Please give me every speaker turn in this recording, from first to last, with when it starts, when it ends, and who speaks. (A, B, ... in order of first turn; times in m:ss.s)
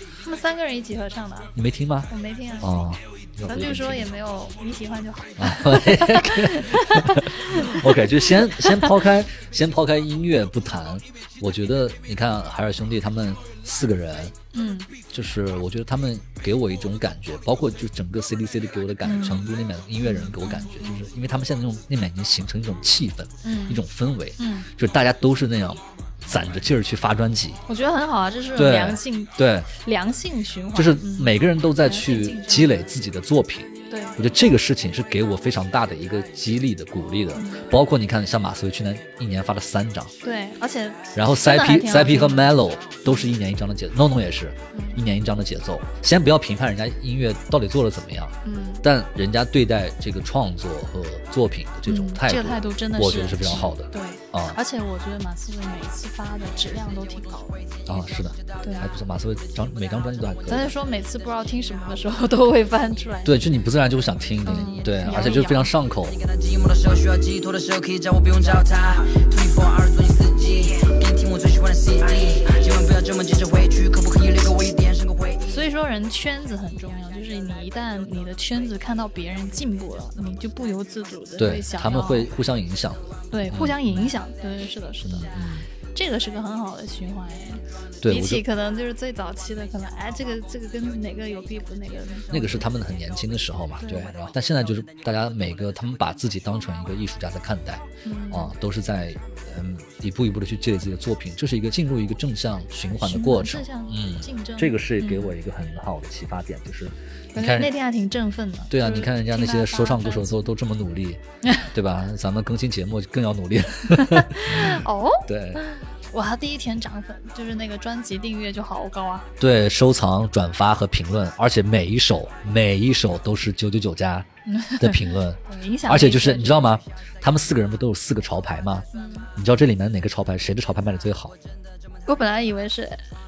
0:00.2-0:01.5 A
0:01.5-0:04.1 B
0:02.1-0:02.7 A
0:03.4-0:08.9 A
0:05.4-0:14.3 B
0:14.5-0:14.9 A
0:15.1-0:27.6 B
0:19.0-0:19.5 A
0:20.0-0:21.0 A
0:23.4-0:23.8 A
0:24.4-0:24.7 A
0:27.7-0:32.8 A
0:28.5-0:29.7 B
0:30.7-0:40.1 B
0:33.9-0:34.2 A
0:37.3-0:37.7 A
0:40.2-0:42.5 A
0:41.1-0:54.6 B
0:44.7-0:45.0 A
0:48.4-0:48.8 A
0:51.9-0:57.7 A
0:57.8-1:00.8 B
0:57.9-0:58.3 C
0:58.6-0:58.9 A
1:00.5-1:03.4 A
1:03.2-1:06.2 B
1:04.4-1:05.7 A
1:04.9-1:05.4 C
1:05.9-1:15.6 C
1:15.4-1:22.3 A
1:21.4-1:24.1 B
1:23.3-1:25.3 A
1:25.0-1:25.7 B
1:25.9-1:32.7 A
1:28.0-1:28.4 B
1:32.3-1:47.7 B
1:33.8-1:34.1 A
1:38.0-1:38.5 A
1:43.0-1:45.3 A
1:47.3-1:50.5 A
1:48.7-1:55.6 B
1:53.9-1:59.3 A
1:59.4-2:11.3 B
2:04.5-2:06.8 A
2:08.9-2:09.3 A
2:12.0-2:13.0 A